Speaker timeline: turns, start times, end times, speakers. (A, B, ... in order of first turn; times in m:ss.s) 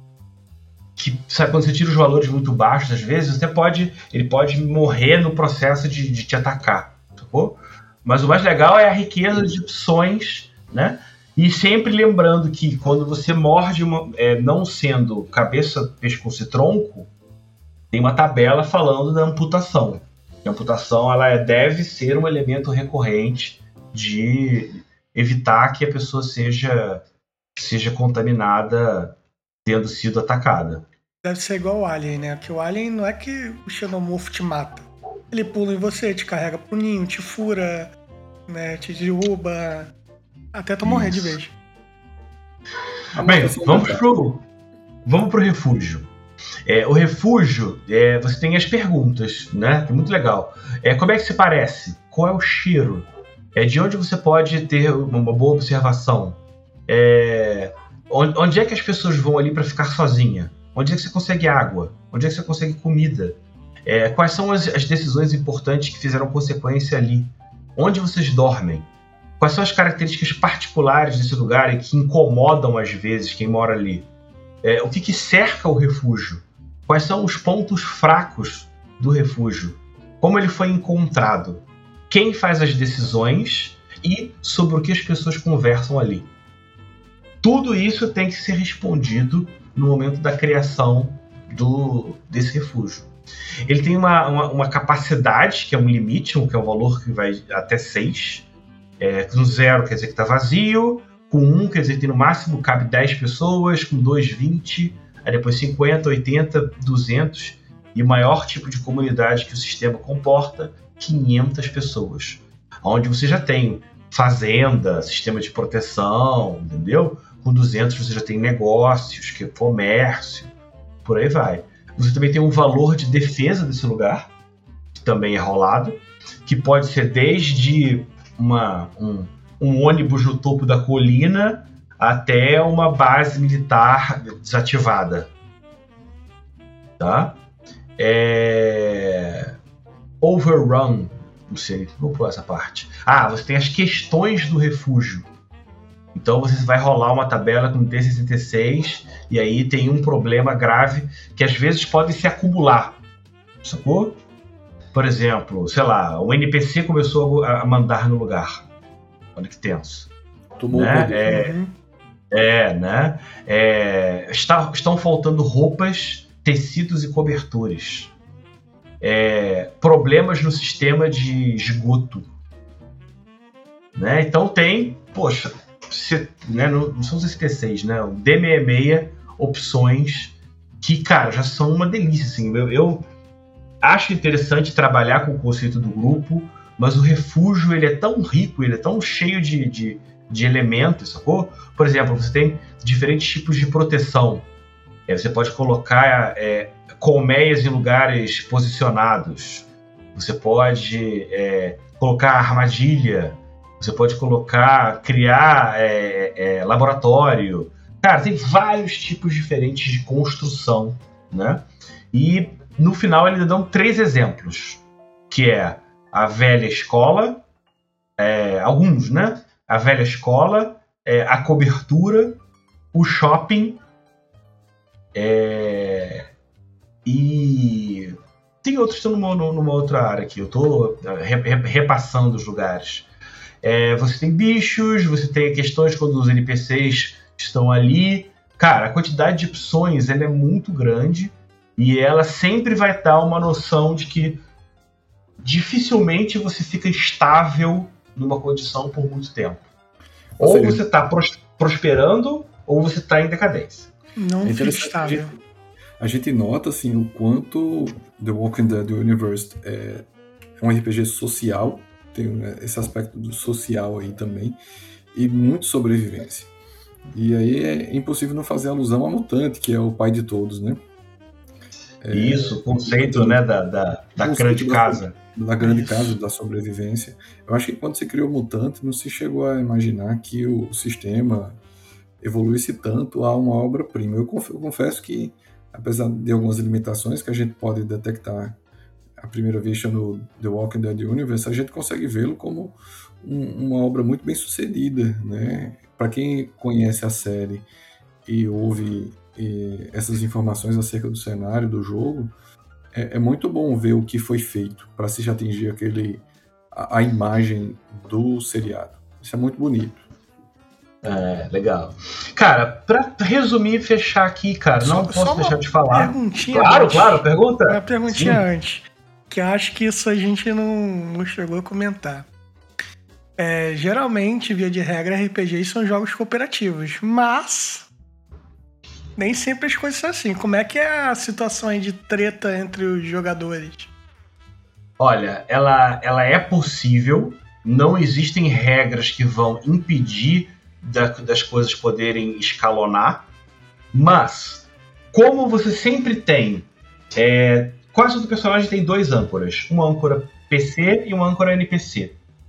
0:01.0-0:17.1 A
0:17.9-0:27.0 A
0:27.5-0:30.8 A
0:31.2-0:37.9 B
0:38.5-0:39.9 B
0:40.5-0:41.5 B
0:40.8-0:41.4 A
0:43.2-0:44.0 C
0:43.2-0:44.4 A
0:45.0-0:46.1 A
0:46.6-1:08.9 A
1:09.4-1:14.1 A
1:14.6-1:26.3 A
1:27.4-1:33.1 A
1:33.7-1:38.5 A
1:39.0-2:00.5 A
2:01.0-2:04.3 A
2:04.9-2:15.3 A
2:17.0-2:17.4 A
2:18.0-2:19.5 A
2:20.2-2:25.2 A
2:26.1-2:33.0 A
2:33.6-2:34.1 A
2:34.9-2:38.6 A
2:39.4-2:40.1 A
2:40.6-2:41.2 C
2:40.7-2:41.5 A
2:41.2-2:41.7 B
2:42.3-2:48.1 A
2:49.0-2:52.3 A
2:54.0-3:03.0 A
3:03.8-3:14.5 A
3:15.1-3:37.4 A
3:38.2-3:42.4 A
3:42.9-3:43.8 A
3:45.1-3:46.3 A
3:47.0-3:53.1 A
3:53.6-4:04.4 A
4:05.4-4:09.6 A
4:10.4-4:10.8 C
4:10.4-4:13.9 A
4:14.2-4:15.3 B
4:14.4-4:15.3 C
4:16.0-4:20.0 C
4:20.6-4:24.6 C
4:25.1-4:26.5 C
4:27.1-4:30.8 C
4:32.0-4:33.4 C
4:32.1-4:35.2 A
4:34.2-4:41.6 C
4:35.6-4:36.1 B
4:42.2-4:48.6 C
4:49.2-4:57.6 C
4:58.2-5:02.3 C
5:02.9-5:10.0 C
5:11.0-5:18.4 A
5:14.8-5:22.2 B
5:23.4-5:27.9 B
5:29.2-5:33.9 B
5:35.0-5:43.2 A
5:43.9-5:52.1 A